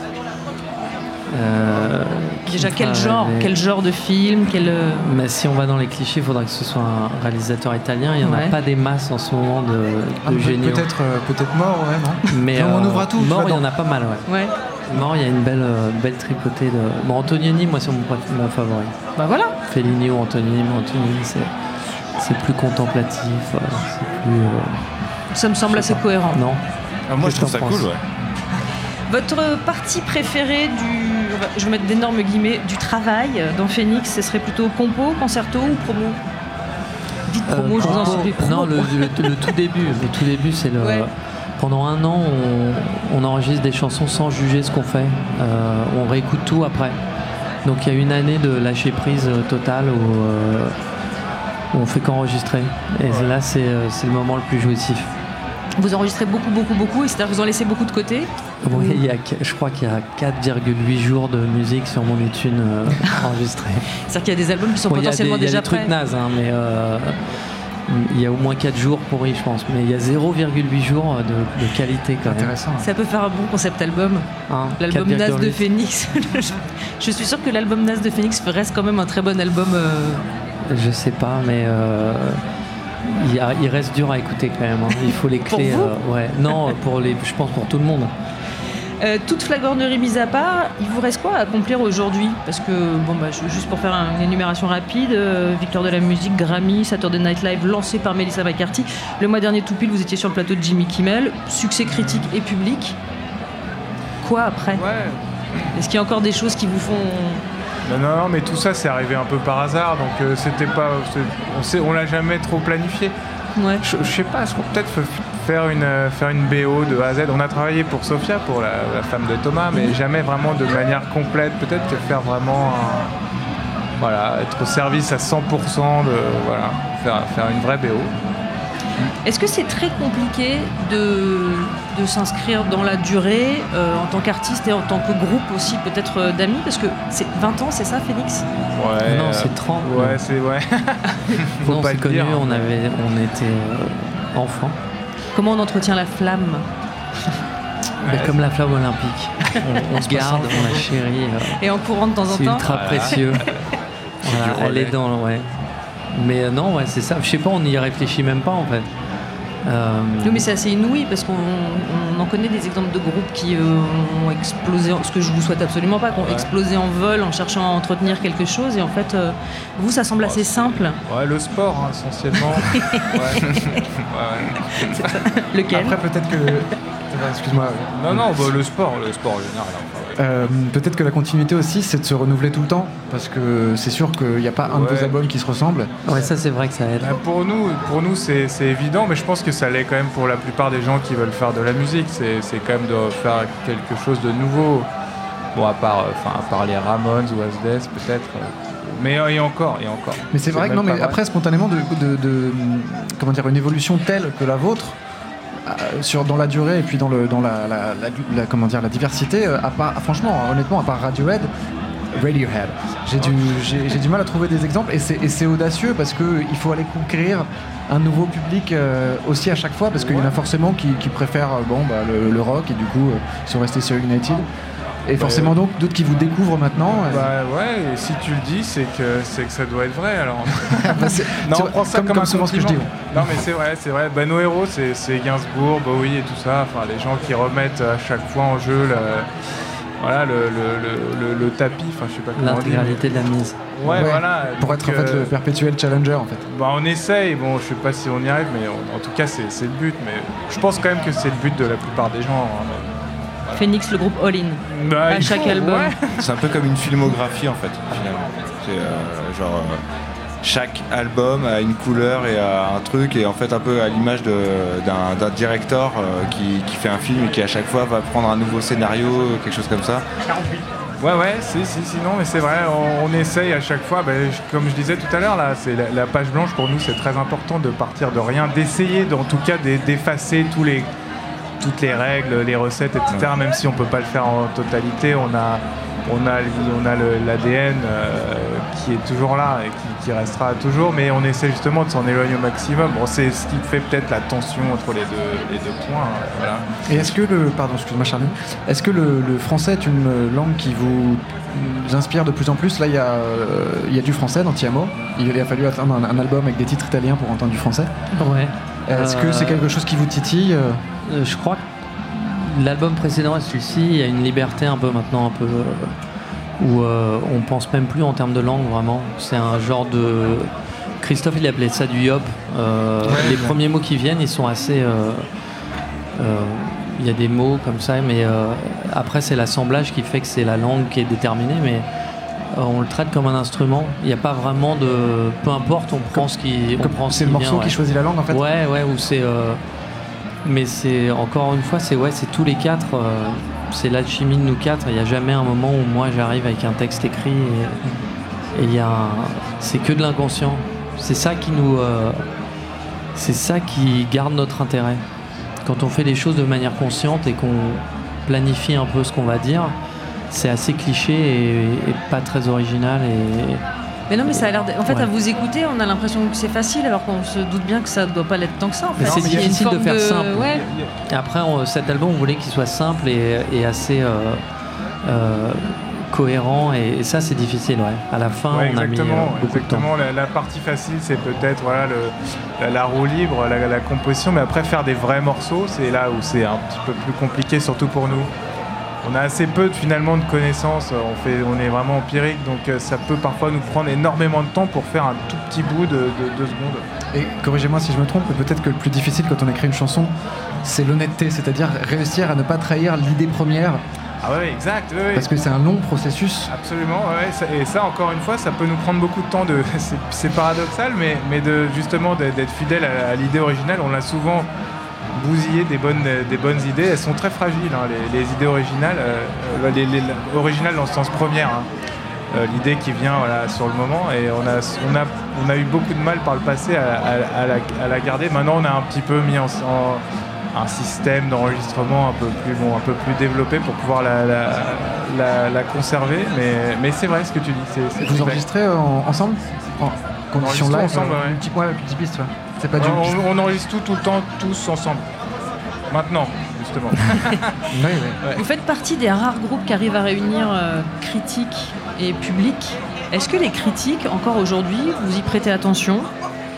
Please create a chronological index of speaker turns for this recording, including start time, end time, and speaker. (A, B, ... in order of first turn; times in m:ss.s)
0:01.3-0:03.6 A
0:02.5-0:05.1 B
0:05.0-0:10.9 A
0:08.2-0:08.5 B
0:10.2-0:13.6 C
0:12.3-0:14.2 A
0:14.3-0:14.5 B
0:14.9-0:18.9 A
0:19.2-0:19.6 B
0:19.6-0:21.5 A
0:22.2-0:24.8 A
0:25.3-0:26.4 B
0:25.7-0:26.6 A
0:27.1-0:28.0 D
0:27.2-0:27.9 A
0:29.1-0:36.2 B
0:37.3-0:39.3 B
0:37.5-0:47.0 A
0:40.8-0:41.1 B
0:47.6-0:50.7 A
0:51.7-0:55.1 A
0:55.8-0:59.0 B
0:58.6-1:03.8 A
1:04.1-1:05.9 B
1:04.9-1:07.2 A
1:07.9-1:12.5 A
1:12.2-1:12.9 C
1:12.8-1:20.2 B
1:14.5-1:15.6 A
1:20.7-1:22.4 A
1:23.0-1:28.1 A
1:25.5-1:25.9 B
1:29.0-1:43.0 B
1:44.2-1:44.8 B
1:44.7-1:45.7 E
1:45.7-1:47.4 B
1:47.8-1:53.1 E
1:53.6-1:53.8 B
1:53.8-2:03.1 E
2:04.0-2:08.1 E
2:09.2-2:18.4 B
2:18.7-2:22.7 E
2:19.0-2:20.2 A
2:21.6-2:24.8 A
2:25.3-2:26.6 B
2:28.0-2:28.4 E
2:28.0-2:31.6 A
2:31.6-2:33.2 B
2:32.3-2:33.4 A
2:32.7-2:33.2 E
2:34.2-2:38.9 A
2:39.6-2:40.5 A
2:40.2-2:51.0 B
2:46.2-2:46.5 E
2:50.2-2:55.0 E
2:52.7-2:53.8 B
2:54.7-2:56.0 B
2:55.7-2:58.5 C
2:57.9-3:00.2 E
3:00.2-3:05.9 C
3:04.6-3:05.2 E
3:06.0-3:07.2 A
3:07.0-3:14.9 E
3:15.5-3:21.2 E
3:20.3-3:25.0 C
3:25.6-3:31.5 C
3:32.1-3:44.5 C
3:40.0-3:40.3 E
3:45.0-3:47.3 C
3:45.2-3:45.6 E
3:46.9-3:59.3 E
3:50.8-3:53.4 C
4:00.0-4:03.1 E
4:02.4-4:03.6 A
4:03.7-4:05.3 E
4:03.8-4:06.4 C
4:06.4-4:12.9 E
4:13.6-4:15.9 B
4:14.7-4:16.1 E
4:16.2-4:19.8 D
4:20.4-4:30.0 D
4:31.0-4:40.9 E
4:41.6-4:57.0 E
4:56.8-5:07.9 C
5:08.2-5:09.7 A
5:08.9-5:10.8 C
5:11.0-5:15.9 A
5:16.6-5:25.2 A
5:26.2-5:31.9 A
5:32.5-5:37.8 A
5:36.1-5:38.4 C
5:38.3-5:39.6 A
5:40.4-5:47.8 A
5:48.5-5:52.2 A
5:53.1-5:55.0 A
5:55.6-5:59.8 A
6:00.3-6:03.6 A
6:04.1-6:10.6 B
6:04.2-6:05.1 A
6:09.0-6:14.4 A
6:09.0-6:09.5 E
6:10.5-6:10.9 E
6:15.0-6:19.9 A
6:18.5-6:28.3 E
6:29.0-6:36.9 E
6:37.1-6:43.8 C
6:44.2-6:45.3 E
6:45.1-6:46.5 C
6:46.5-6:54.5 E
6:55.1-7:01.7 E
7:02.3-7:18.4 E
7:18.0-7:23.2 C
7:20.4-7:21.4 E
7:22.8-7:25.0 E
7:25.9-7:27.6 E
7:27.7-7:28.2 C
7:28.4-7:36.1 B